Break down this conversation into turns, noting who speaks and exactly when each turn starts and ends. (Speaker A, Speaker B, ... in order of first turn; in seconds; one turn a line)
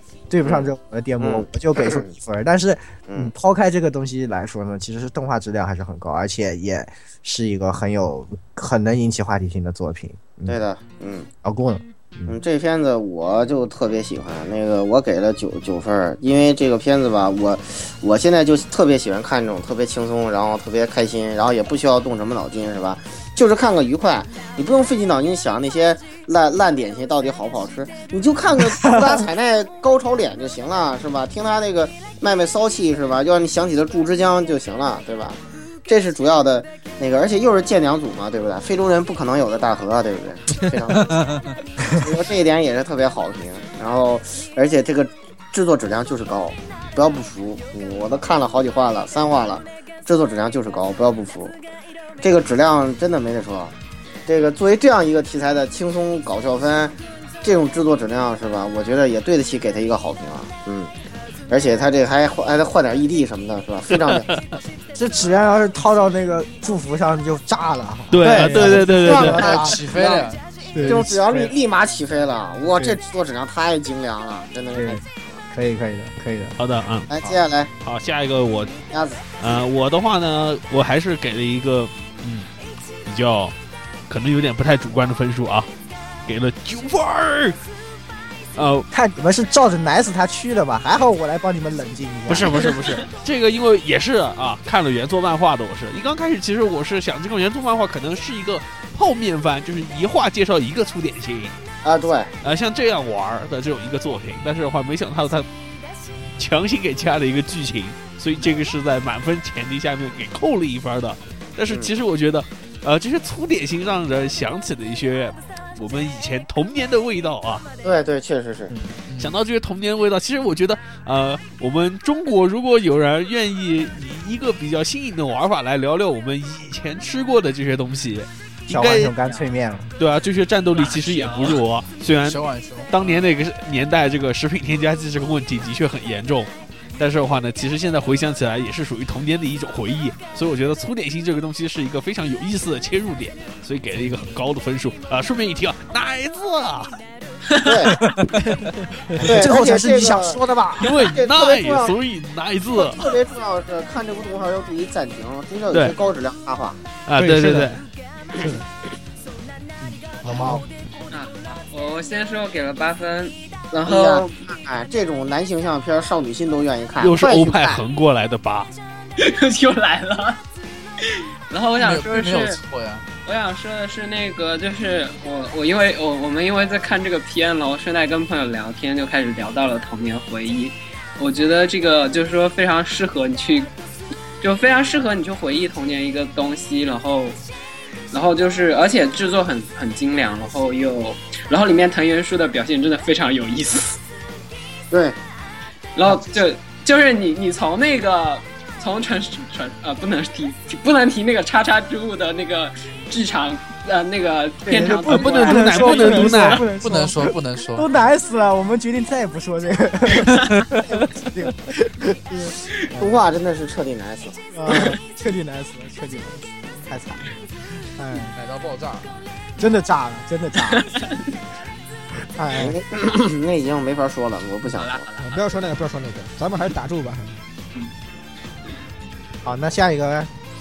Speaker A: 0.3-10.6
Speaker B: 0.4-0.7
Speaker B: 1.2-2.1
Speaker B: 10.4-11.3
Speaker A: 11.4-12.4
Speaker B: 12.3-41.1
Speaker A: 28.8-29.3
Speaker C: 40.9-41.6
Speaker B: 41.9-51.6
Speaker B: 52.2-53.7
Speaker B: 54.3-60.9
Speaker B: 61.5-64.3
Speaker A: 64.9-70.2
Speaker D: 68.1-69.6
Speaker B: 68.2-70.3
Speaker C: 69.2-70.5
Speaker A: 70.7-71.5
Speaker B: 70.8-75.4
Speaker A: 74.7-76.6
Speaker D: 76.6-77.1
Speaker B: 77.1-77.7
Speaker D: 77.8-78.8
Speaker B: 78.9-79.2
Speaker D: 79.4-82.5
Speaker D: 83.0-83.5
Speaker D: 84.1-85.7
Speaker D: 86.3-87.6
Speaker D: 88.6-88.9
Speaker A: 88.9-92.7
Speaker D: 92.3-101.5
Speaker B: 101.8-102.3
Speaker D: 102.4-105.5
Speaker D: 106.4-117.7
Speaker B: 117.8-118.7
Speaker A: 118.7-119.0
Speaker C: 119.1-119.4
Speaker D: 119.2-129.1
Speaker A: 128.7-129.9
Speaker D: 130.0-147.0
Speaker E: 130.7-131.6
Speaker C: 132.2-132.9
Speaker B: 147.6-148.0
Speaker C: 148.0-148.6
Speaker F: 148.4-149.2
Speaker A: 149.2-151.1
Speaker B: 149.2-150.4
Speaker D: 150.8-153.1
Speaker B: 151.1-151.9
Speaker B: 152.7-156.8
Speaker D: 155.7-155.9
Speaker D: 157.1-157.8
Speaker F: 157.2-157.8
Speaker A: 160.2-160.6
Speaker F: 160.2-160.6
Speaker B: 160.3-160.6
Speaker E: 161.1-164.3
Speaker B: 163.8-167.8
Speaker D: 167.0-168.7
Speaker E: 169.2-170.4
Speaker E: 171.0-172.6
Speaker C: 171.8-173.1
Speaker E: 173.2-183.7
Speaker E: 184.4-187.4
Speaker E: 188.1-194.0
Speaker B: 194.9-195.2
Speaker E: 195.9-206.6
Speaker A: 204.7-213.2
Speaker D: 205.1-206.7
Speaker C: 206.8-207.9
Speaker B: 213.0-214.9
Speaker A: 214.5-217.2
Speaker A: 217.9-218.4
Speaker C: 218.3-219.2
Speaker A: 219.6-221.1
Speaker E: 220.7-221.2
Speaker A: 222.4-222.7
Speaker B: 222.5-225.1
Speaker E: 224.7-225.6
Speaker F: 225.2-227.4
Speaker A: 229.4-230.3